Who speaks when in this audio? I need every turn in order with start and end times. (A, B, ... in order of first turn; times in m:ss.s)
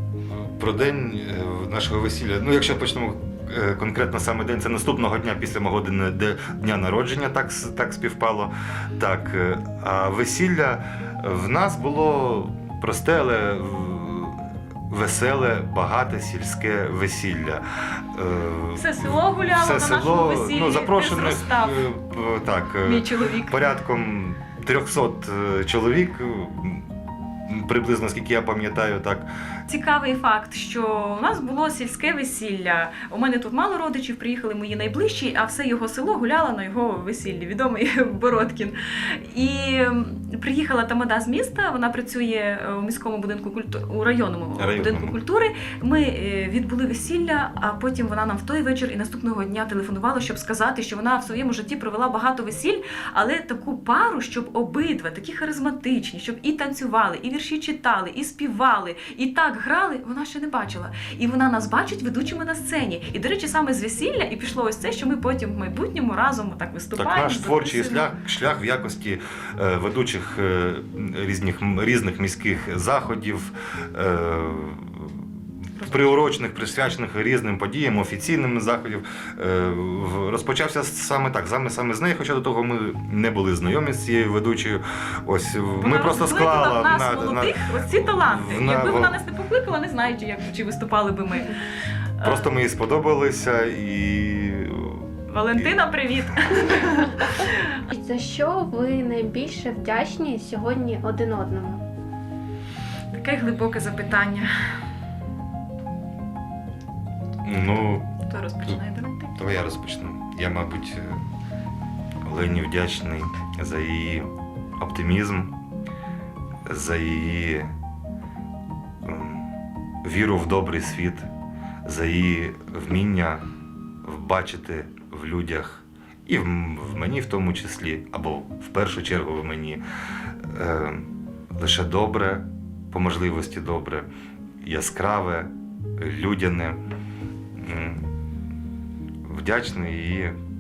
0:00.3-0:17.6 A
0:18.2-0:26.9 A
0:18.8-0:21.8 B
0:22.8-0:23.6 B
0:27.5-0:29.3 A
0:29.7-1:08.1 B
0:44.6-0:45.1 A
1:07.0-1:15.1 A
1:15.8-1:16.1 B
1:15.9-1:27.5 A
1:25.8-1:31.6 B
1:28.1-1:29.2 A
1:32.2-1:32.5 B
1:32.2-1:35.7 A
1:35.3-1:37.7 B
1:37.9-1:41.8 C
1:43.1-1:44.5 B
1:47.4-1:48.1 A
1:48.2-1:49.4 B
1:49.4-1:51.2 A
1:52.2-1:54.3 A
1:54.8-1:55.5 A
1:56.7-1:57.7 A
1:59.0-1:59.5 A
2:00.0-2:01.3 A
2:01.8-2:03.4 A
2:04.0-2:09.8 A
2:10.5-2:11.1 A
2:11.6-2:14.1 A
2:14.6-2:16.8 A
2:17.6-2:18.1 A
2:19.3-2:20.4 A